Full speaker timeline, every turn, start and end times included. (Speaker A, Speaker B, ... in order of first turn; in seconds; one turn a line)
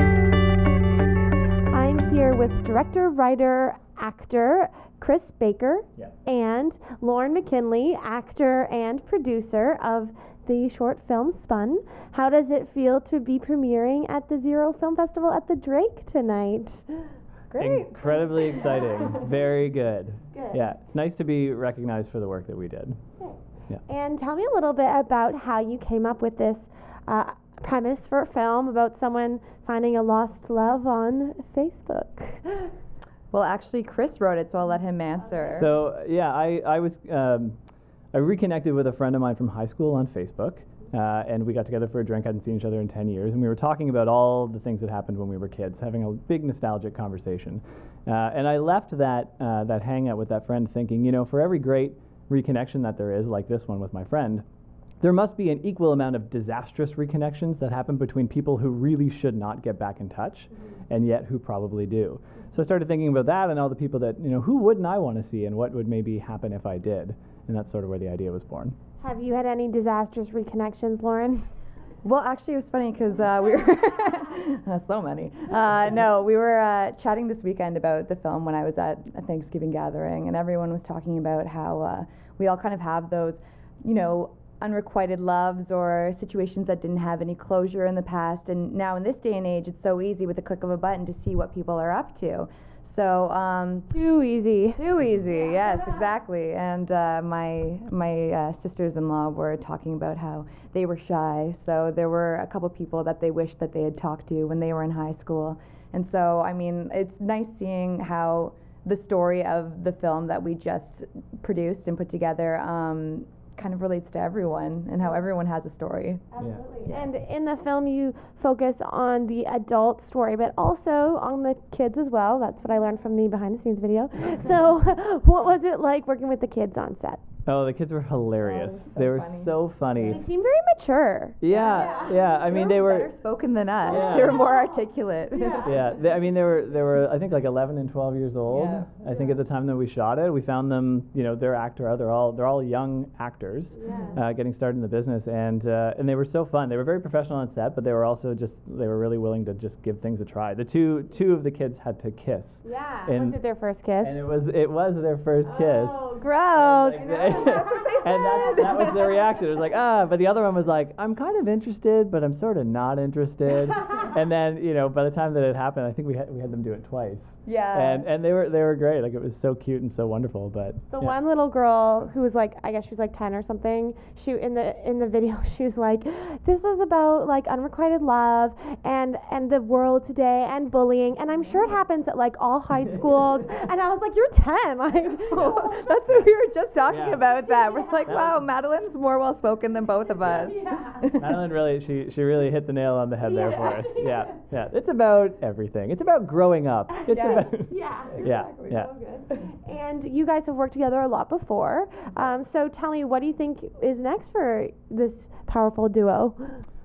Speaker A: 1.7-17.0
Speaker B: 17.5-17.9
Speaker C: 17.6-23.0
Speaker A: 20.3-20.6
Speaker A: 23.2-32.7
Speaker B: 33.3-35.7
Speaker C: 35.5-37.6
Speaker C: 38.1-54.4
Speaker C: 55.0-68.7
Speaker A: 69.0-71.4
Speaker B: 72.0-93.9
Speaker A: 93.9-94.8
Speaker B: 94.7-117.1
Speaker A: 116.3-127.2
Speaker C: 116.4-116.6
Speaker C: 127.5-130.2
Speaker B: 128.4-130.2
Speaker A: 130.1-132.1
Speaker C: 131.4-133.1
Speaker B: 131.5-135.9
Speaker C: 133.8-134.4
Speaker A: 133.9-135.6
Speaker C: 135.6-153.4
Speaker B: 138.5-138.9
Speaker A: 143.8-144.2
Speaker A: 152.6-154.2
Speaker C: 154.0-171.1
Speaker A: 155.4-157.6
Speaker B: 157.0-159.1
Speaker B: 167.4-168.1
Speaker A: 170.9-186.0
Speaker B: 185.3-191.5
Speaker C: 186.9-187.3
Speaker A: 187.4-188.0
Speaker C: 188.0-188.4
Speaker A: 190.4-191.0
Speaker C: 191.2-198.9
Speaker A: 193.3-194.3
Speaker B: 197.1-197.5
Speaker A: 197.3-206.6
Speaker B: 198.1-199.3